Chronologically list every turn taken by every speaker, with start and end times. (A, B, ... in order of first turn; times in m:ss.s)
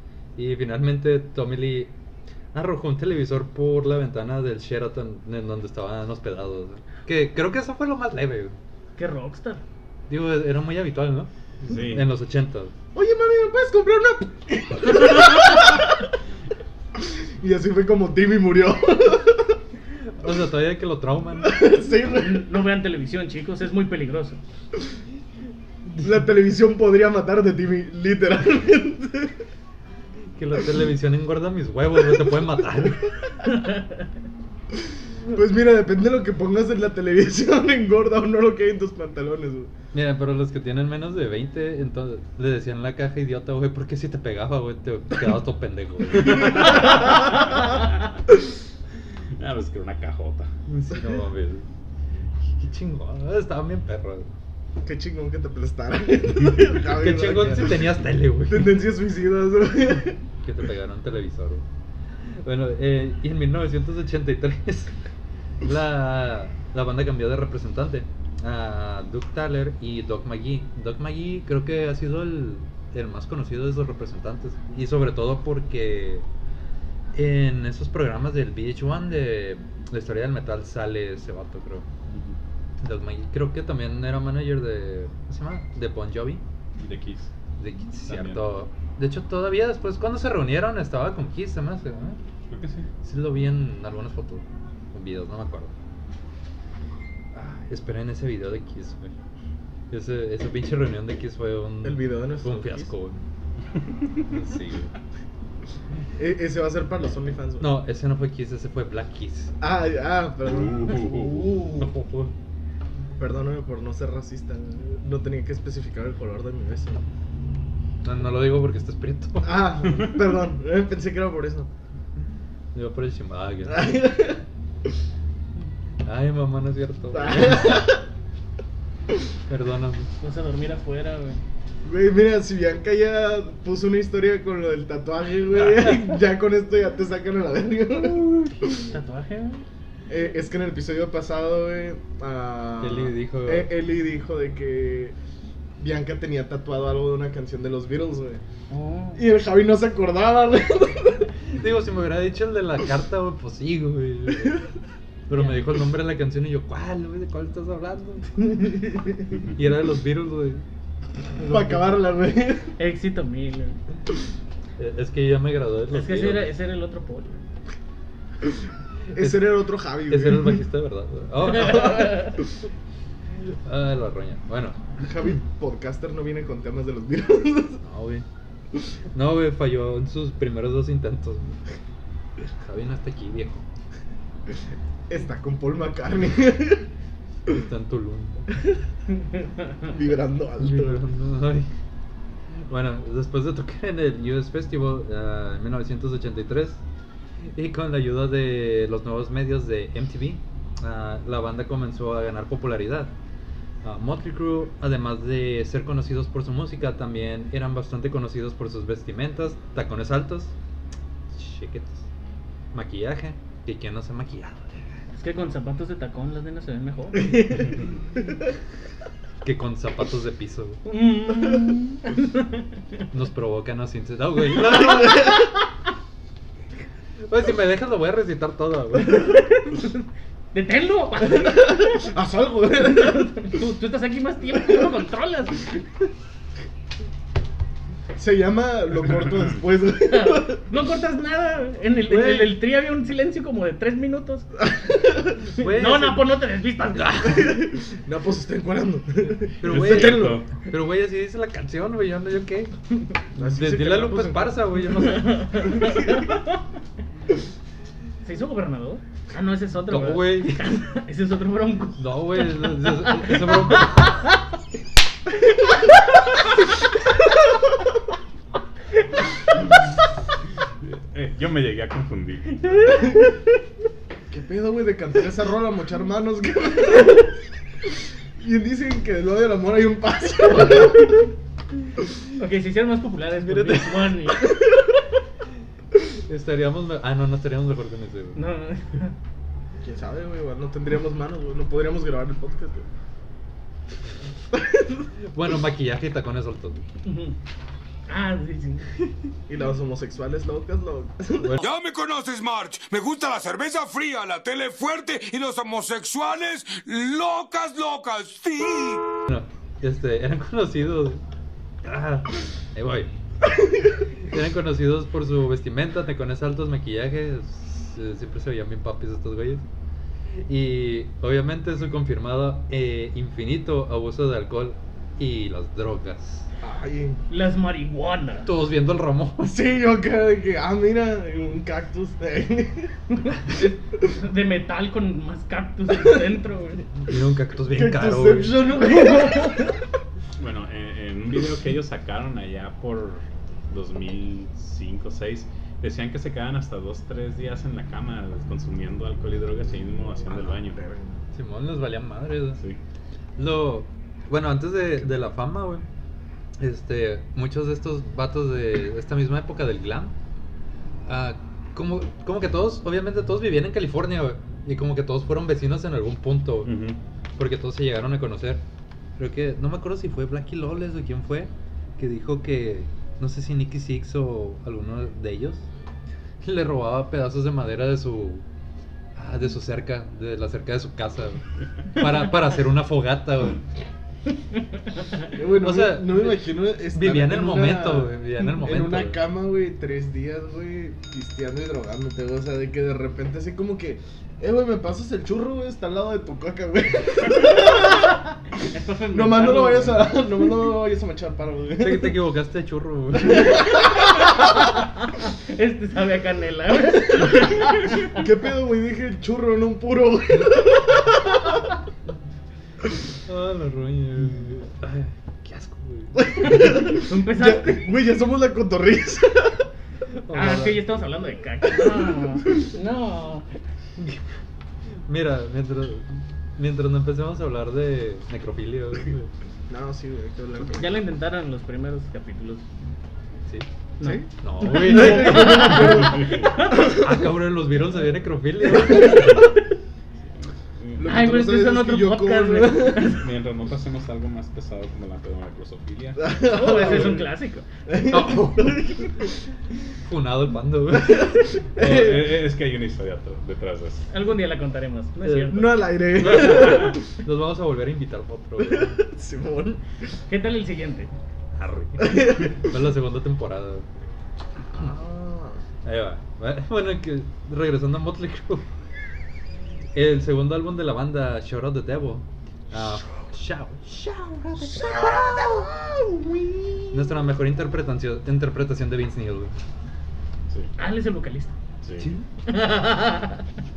0:00.4-0:01.9 A
0:02.5-0:08.6 A
0:09.0-0:09.6 B
0:10.1-0:12.7 A
0:11.6-0:12.1 C
0:12.9-0:16.1 D
0:17.0-0:19.6 D
0:20.2-0:21.6 A
0:21.4-0:22.5 D
0:22.2-0:24.4 B
0:26.0-0:29.4 D
0:30.4-0:33.2 A
0:35.3-0:39.7 D
0:39.9-0:47.0 A
0:46.2-0:47.3 C
0:46.6-0:47.4 D
0:49.4-0:50.5 C
0:50.7-0:51.7 A
0:52.6-0:54.3 A
0:54.8-0:57.9 D
0:56.9-0:58.8 A
0:58.4-1:00.2 D
1:00.4-1:01.6 A
1:02.2-1:04.9 A
1:05.6-1:16.2 A
1:17.1-1:21.9 A
1:22.1-1:22.4 C
1:22.8-1:26.4 A
1:26.8-1:27.3 C
1:27.6-1:32.2 A
1:28.1-1:28.4 C
1:32.5-1:32.9 C
1:33.0-1:35.7 A
1:37.3-1:39.1 A
1:39.9-1:43.2 A
1:41.8-1:42.9 D
1:44.3-1:44.9 A
1:46.2-1:47.7 D
1:47.6-1:49.6 A
1:49.6-1:51.8 D
1:50.4-1:51.5 C
1:51.8-1:52.3 A
1:53.2-1:57.0 D
1:58.0-1:59.7 A
1:59.4-2:01.7 D
2:02.7-2:04.2 A
2:03.7-2:04.4 D
2:06.0-2:07.9 A
2:07.1-2:08.0 D
2:09.5-2:10.1 A
2:10.2-2:11.4 B
2:11.8-2:18.8 D
2:18.8-2:19.6 B
2:20.1-2:25.1 D
2:22.8-2:23.7 A
2:25.8-2:28.4 D
2:28.7-2:29.2 B
2:29.1-2:31.3 D
2:31.5-2:34.6 A
2:35.3-2:38.3 A
2:35.3-2:35.6 B
2:38.4-2:39.1 B
2:39.5-2:40.6 A
2:41.4-2:41.9 A
2:41.4-2:42.8 D
2:42.8-2:43.8 B
2:44.8-2:46.5 A
2:45.9-2:47.4 B
2:49.1-2:52.4 A
2:49.1-2:50.6 D
2:51.8-2:52.3 B
2:53.4-2:54.8 A
2:55.0-2:57.8 D
2:57.8-2:58.2 A
2:59.1-3:01.6 A
3:02.6-3:03.6 A
3:05.1-3:06.9 D
3:07.5-3:08.5 A
3:09.1-3:09.9 B
3:09.9-3:11.0 D
3:10.6-3:11.7 A
3:12.7-3:16.8 A
3:17.5-3:23.1 A
3:23.8-3:30.5 A
3:31.3-3:32.0 A
3:32.7-3:35.0 A
3:35.1-3:37.6 B
3:37.2-3:38.2 D
3:39.4-3:40.8 A
3:40.8-3:42.7 B
3:43.1-3:45.4 A
3:44.6-3:45.4 D
3:47.3-3:49.4 A
3:49.0-3:52.1 B
3:51.2-3:53.5 D
3:52.8-3:55.8 B
3:58.2-4:00.6 D
4:00.1-4:04.5 B
4:02.0-4:02.6 A
4:04.7-4:05.2 D
4:05.4-4:06.2 A
4:05.6-4:07.5 B
4:06.9-4:07.5 A
4:07.2-4:10.4 D
4:09.6-4:12.7 A
4:09.6-4:10.5 C
4:13.3-4:14.6 D
4:13.4-4:15.7 A
4:15.1-4:16.4 B
4:18.2-4:24.3 B
4:19.9-4:20.7 A
4:22.0-4:24.1 A
4:30.8-4:32.6 C
4:32.6-4:33.3 B
4:34.3-4:37.3 D
4:37.8-4:41.3 D
4:42.4-4:44.6 B
4:43.5-4:43.8 A
4:43.5-4:45.0 D
4:46.3-4:48.4 A
4:48.4-4:49.1 B
4:49.8-4:52.9 D
4:54.5-4:55.0 D
4:55.2-4:56.8 A
4:57.0-4:57.4 B
4:58.1-4:59.1 B
4:59.5-5:01.5 D
5:01.4-5:01.6 A
5:01.6-5:09.0 E
5:09.3-5:11.2 A
5:11.8-5:13.1 A
5:13.9-5:19.6 A
5:20.4-5:26.4 A
5:26.6-5:27.2 D
5:27.3-5:28.5 B
5:28.4-5:29.6 A
5:29.4-5:33.0 D
5:33.1-5:36.9 B
5:37.0-5:38.7 A
5:37.6-5:39.7 D
5:38.8-5:39.8 B
5:40.4-5:50.8 C
5:50.3-5:51.2 D
5:51.3-5:52.6 A
5:53.4-5:55.8 A
5:56.6-6:00.1 A
6:01.1-6:06.7 A
6:06.6-6:07.0 C
6:07.4-6:08.6 A
6:09.2-6:15.6 A
6:16.4-6:18.4 A
6:19.2-6:23.6 A
6:25.3-6:38.2 D
6:25.6-6:29.2 A
6:37.6-6:37.9 B
6:38.6-6:40.1 B
6:39.1-6:42.2 D
6:41.8-6:43.6 A
6:43.2-6:44.4 D
6:43.8-6:48.2 B
6:48.1-6:51.7 D
6:53.2-6:56.6 A
6:56.1-6:59.7 D
6:56.5-6:57.8 B
7:00.2-7:01.0 A
7:00.3-7:03.5 B
7:01.7-7:02.3 D
7:04.0-7:04.3 A
7:05.1-7:09.3 A
7:09.7-7:11.0 D
7:10.7-7:12.6 B
7:14.0-7:17.0 B
7:14.0-7:17.0 D
7:14.3-7:16.0 A
7:16.0-7:16.4 C
7:16.7-7:19.4 A
7:20.2-7:21.2 C
7:21.0-7:23.2 D
7:21.0-7:23.2 B
7:23.1-7:26.8 C
7:26.2-7:27.3 D
7:26.4-7:27.6 B
7:27.8-7:29.3 D
7:28.1-7:29.0 A
7:29.9-7:31.6 A
7:31.0-7:32.4 D
7:31.8-7:34.1 C
7:34.1-7:35.8 B
7:35.2-7:35.6 A
7:35.5-7:37.0 D
7:36.1-7:39.0 A
7:38.6-7:39.8 D
7:40.3-7:41.1 B
7:41.6-7:43.9 A
7:42.0-7:42.6 D
7:44.7-7:45.6 D
7:45.8-7:48.7 A
7:49.9-7:55.0 A
7:54.7-7:57.0 D
7:56.9-7:59.5 A
8:00.8-8:01.5 B
8:01.8-8:02.1 C
8:02.0-8:02.2 A
8:02.5-8:03.4 B